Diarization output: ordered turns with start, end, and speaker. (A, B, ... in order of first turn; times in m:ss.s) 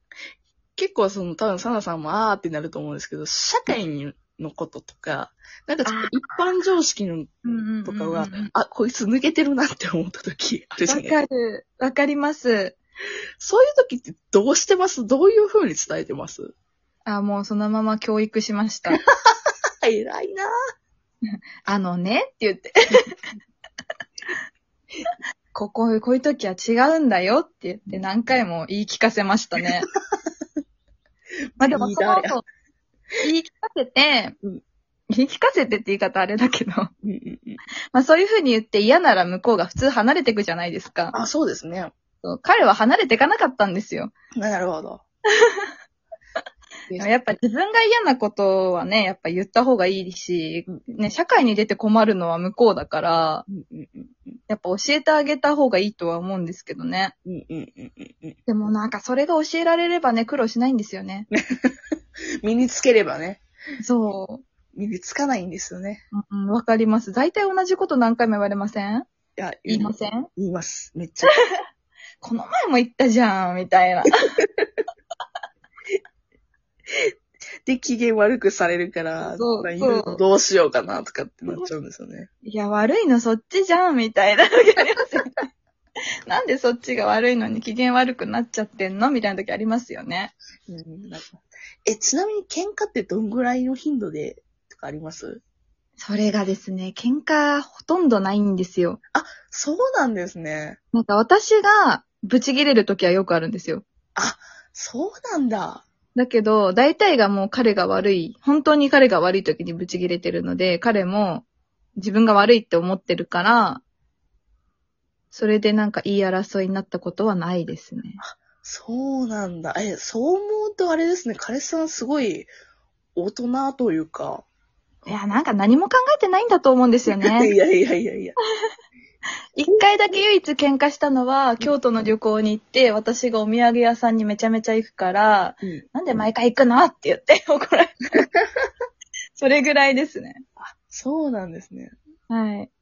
0:00.8-0:07.3 A
0:05.8-0:06.3 B
0:07.4-0:08.5 B
0:07.8-0:11.2 A
0:10.9-0:12.8 B
0:13.4-0:16.5 A
0:17.1-0:19.0 B
0:19.8-0:20.5 A
0:21.6-0:23.2 B
0:25.5-0:29.9 B
0:31.6-0:32.4 A
0:31.6-0:32.4 B
0:33.2-0:34.4 B
0:35.1-0:36.9 B
0:37.0-0:37.6 A
0:37.9-0:41.2 B
0:41.1-0:41.9 A
0:42.2-0:44.1 B
0:44.4-0:45.0 A
0:45.4-0:45.7 B
0:47.0-0:53.5 B
0:53.5-0:54.4 A
0:54.5-0:57.1 B
0:57.3-0:58.4 A
0:58.5-1:01.3 B
1:01.3-1:01.7 A
1:02.4-1:03.4 A
1:03.8-1:04.4 B
1:04.8-1:06.0 A
1:06.1-1:09.1 B
1:09.4-1:11.3 A
1:09.7-1:10.3 B
1:12.2-1:14.3 B
1:17.7-1:22.3 A
1:19.2-1:20.2 B
1:22.4-1:25.4 B
1:26.3-1:30.3 B
1:30.7-1:35.4 A
1:36.0-1:39.0 B
1:39.1-1:40.8 A
1:40.9-1:43.8 B
1:44.2-1:45.8 A
1:46.2-1:51.4 B
1:52.0-1:53.8 B
1:55.3-1:58.2 B
1:58.2-2:02.5 A
2:03.2-2:04.4 A
2:05.1-2:07.5 B
2:07.1-2:08.4 A
2:09.6-2:18.1 B
2:19.4-2:20.4 B
2:20.6-2:22.0 A
2:22.3-2:22.7 B